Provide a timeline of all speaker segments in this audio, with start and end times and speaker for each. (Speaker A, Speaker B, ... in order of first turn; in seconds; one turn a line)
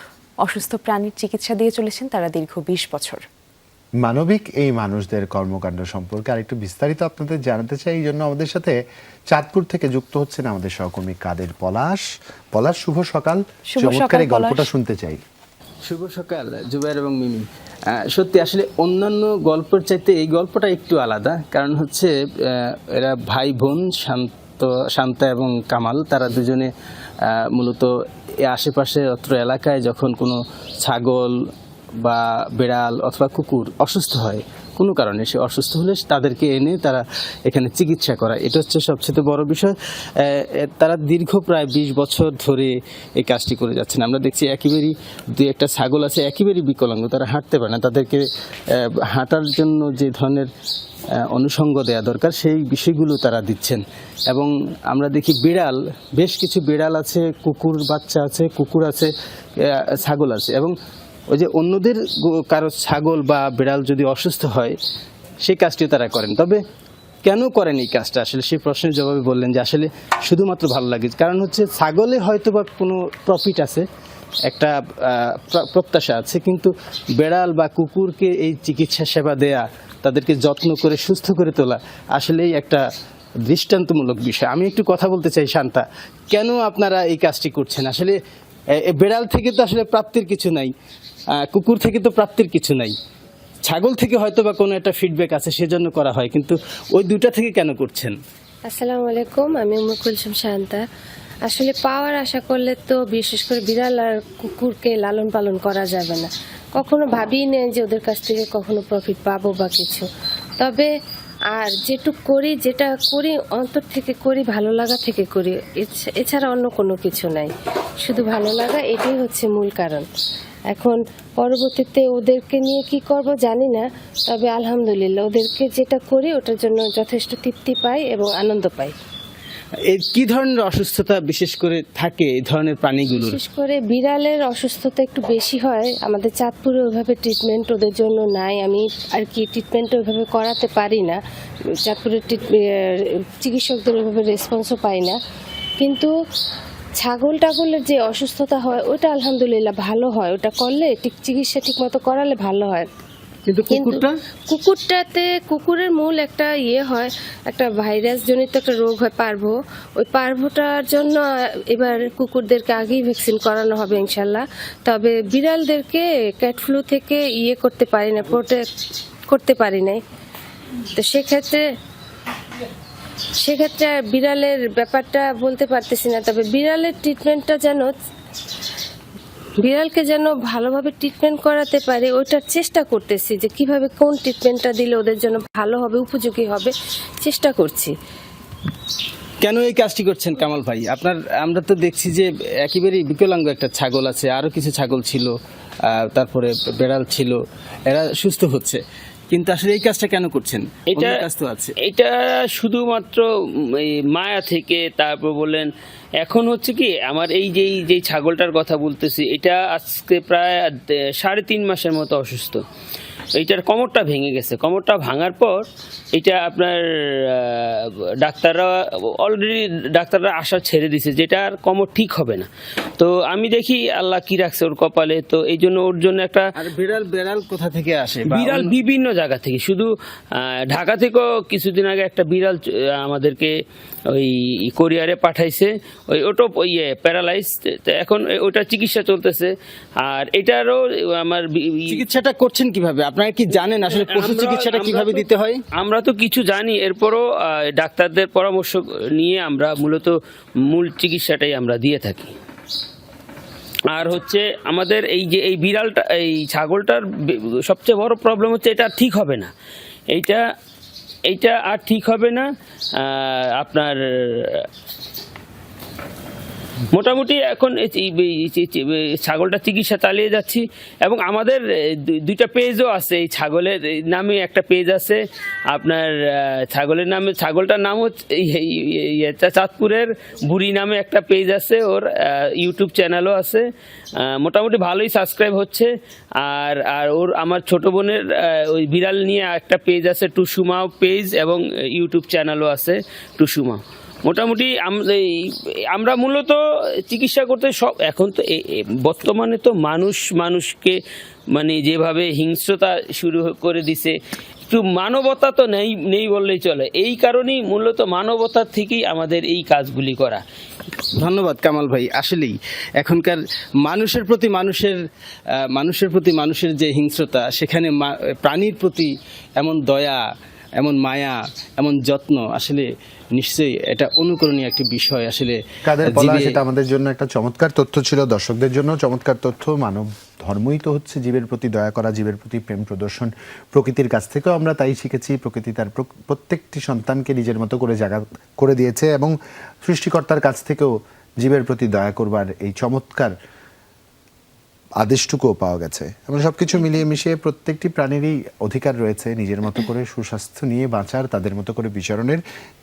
Speaker A: 0.4-3.2
Speaker B: 4.0-8.8
Speaker B: 9.3-15.2
Speaker A: 13.7-14.7
Speaker C: 15.8-17.4
Speaker C: 17.9-26.7
Speaker C: 27.3-27.9
Speaker C: 28.4-31.4
Speaker C: 32.0-48.2
Speaker C: 48.8-50.5
Speaker C: 51.2-60.7
Speaker C: 61.3-64.8
Speaker C: 65.4-66.6
Speaker C: 67.2-73.8
Speaker C: 74.5-82.8
Speaker C: 83.5-88.2
Speaker C: 88.8-90.7
Speaker C: 91.4-92.9
Speaker C: 93.6-98.2
Speaker D: 98.7-100.8
Speaker D: 101.4-110.0
Speaker D: 110.6-110.9
Speaker D: 111.5-117.5
Speaker D: 118.0-120.0
Speaker D: 120.7-128.9
Speaker C: 129.9-133.4
Speaker D: 133.1-141.2
Speaker D: 141.8-145.2
Speaker D: 145.8-146.1
Speaker D: 147.0-152.9
Speaker C: 153.4-154.1
Speaker D: 153.7-168.6
Speaker D: 169.3-170.0
Speaker D: 170.9-171.6
Speaker D: 173.4-177.9
Speaker D: 179.6-187.9
Speaker C: 189.4-195.3
Speaker C: 195.9-201.7
Speaker E: 201.8-203.3
Speaker E: 203.8-205.7
Speaker E: 206.2-212.6
Speaker E: 213.3-222.5
Speaker E: 223.0-226.5
Speaker C: 226.6-228.7
Speaker E: 228.3-233.5
Speaker E: 234.1-239.5
Speaker E: 240.0-242.0
Speaker C: 241.9-245.6
Speaker E: 243.8-250.2
Speaker E: 250.7-252.3
Speaker E: 253.9-259.5
Speaker E: 260.1-260.4
Speaker E: 261.3-262.4
Speaker E: 263.0-264.6
Speaker E: 266.9-275.2
Speaker E: 275.7-283.6
Speaker E: 284.4-285.9
Speaker E: 286.4-301.0
Speaker E: 301.5-304.1
Speaker E: 304.7-310.4
Speaker C: 311.1-315.0
Speaker C: 315.7-320.2
Speaker C: 320.8-326.5
Speaker B: 325.9-339.3
Speaker B: 339.8-343.3
Speaker B: 345.0-352.4